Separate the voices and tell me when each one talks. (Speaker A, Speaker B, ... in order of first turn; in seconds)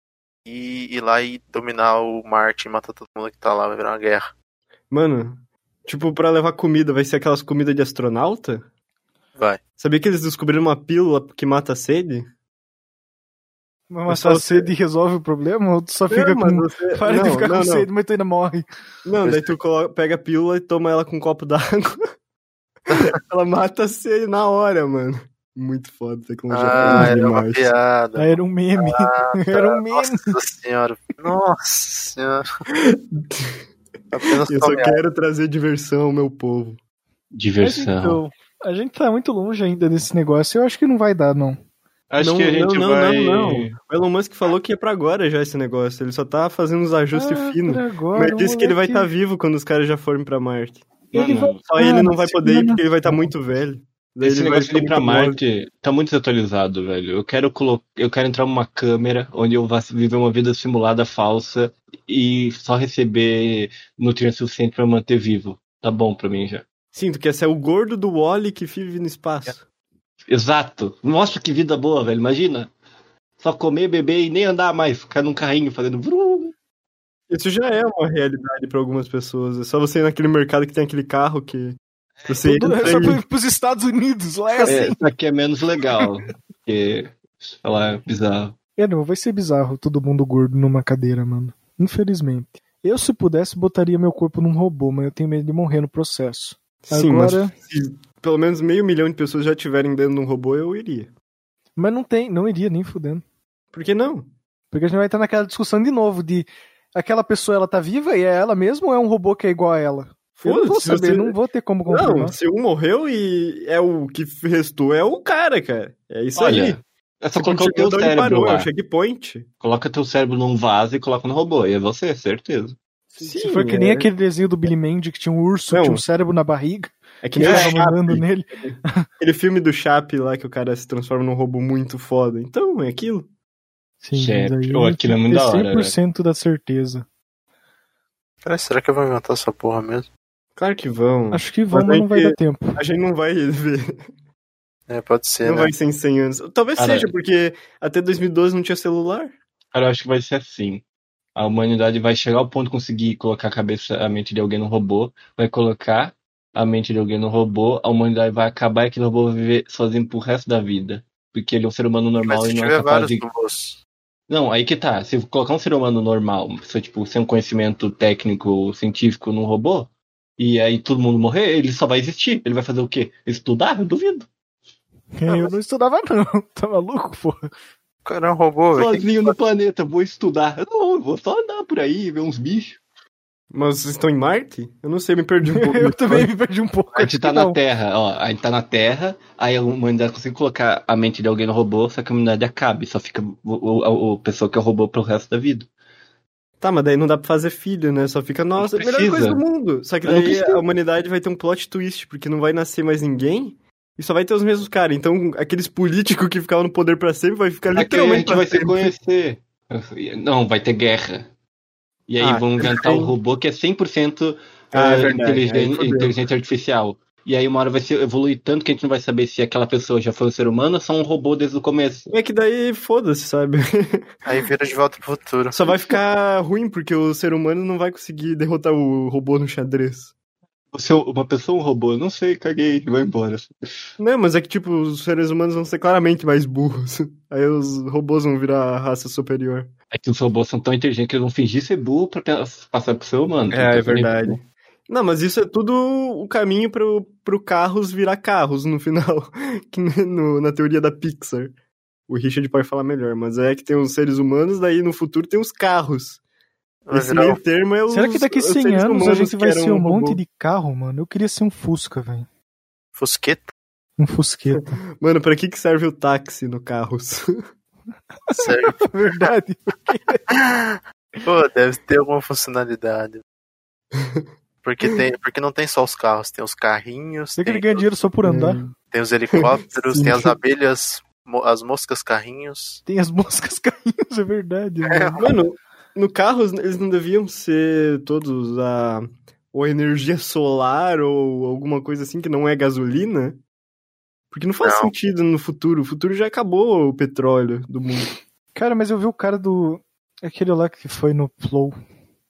Speaker A: 0.4-4.3, 26.5-32.4, 34.1-35.0, 138.4-140.1, 144.9-145.7, 162.2-163.8, 178.0-179.3, 224.2-225.7, 256.9-257.4, 262.9-263.5, 268.4-268.9, 270.3-273.2, 274.6-277.8, 278.9-282.8, 284.9-285.3, 294.6-294.9
Speaker B: 4.9-8.6, 9.8-12.2, 14.1-14.7, 16.1-17.9, 19.0-22.0, 22.9-27.7, 32.7-33.6, 34.5-36.8, 42.2-50.9, 51.6-55.4, 66.9-69.6, 77.3-83.2, 96.9-101.1, 103.7-104.3, 110.4-111.3, 111.9-116.8, 117.4-119.5, 123.2-124.1, 125.7-126.0, 127.2-133.3, 140.6-143.9, 145.4-149.3, 183.5-186.3, 196.6-208.9, 212.2-213.1, 214.7-216.2, 222.1-224.1, 225.5-230.1, 234.0-239.7, 243.5-251.5, 252.1-256.2, 256.9-260.2, 265.0-267.4, 273.9-274.2, 278.2-278.7, 279.3-280.3, 285.2-293.4, 294.3-298.1
Speaker C: 13.9-18.6, 26.8-27.1, 28.1-30.4, 37.6-41.6, 47.1-49.1, 51.1-53.3, 82.4-85.0, 88.8-97.5, 101.8-103.2, 104.7-112.3, 123.2-129.0, 134.0-137.1, 141.3-142.8, 175.1-177.5, 185.4-187.6, 257.9-262.3, 264.0-264.8, 268.3-270.2, 277.4-278.6, 282.9-285.3, 298.5-301.8
Speaker D: 37.3-38.2, 42.1-43.7, 51.1-51.6, 54.2-66.6, 70.3-72.7, 73.4-76.5, 84.7-88.5, 116.3-118.7, 119.6-122.8, 127.4-127.8, 134.1-135.9, 146.8-147.1, 149.7-150.8, 151.3-163.2, 164.3-174.3, 178.7-182.8, 186.9-195.7, 198.6-199.4, 200.0-200.6, 207.7-211.3, 212.1-222.1, 230.7-233.5, 239.9-244.3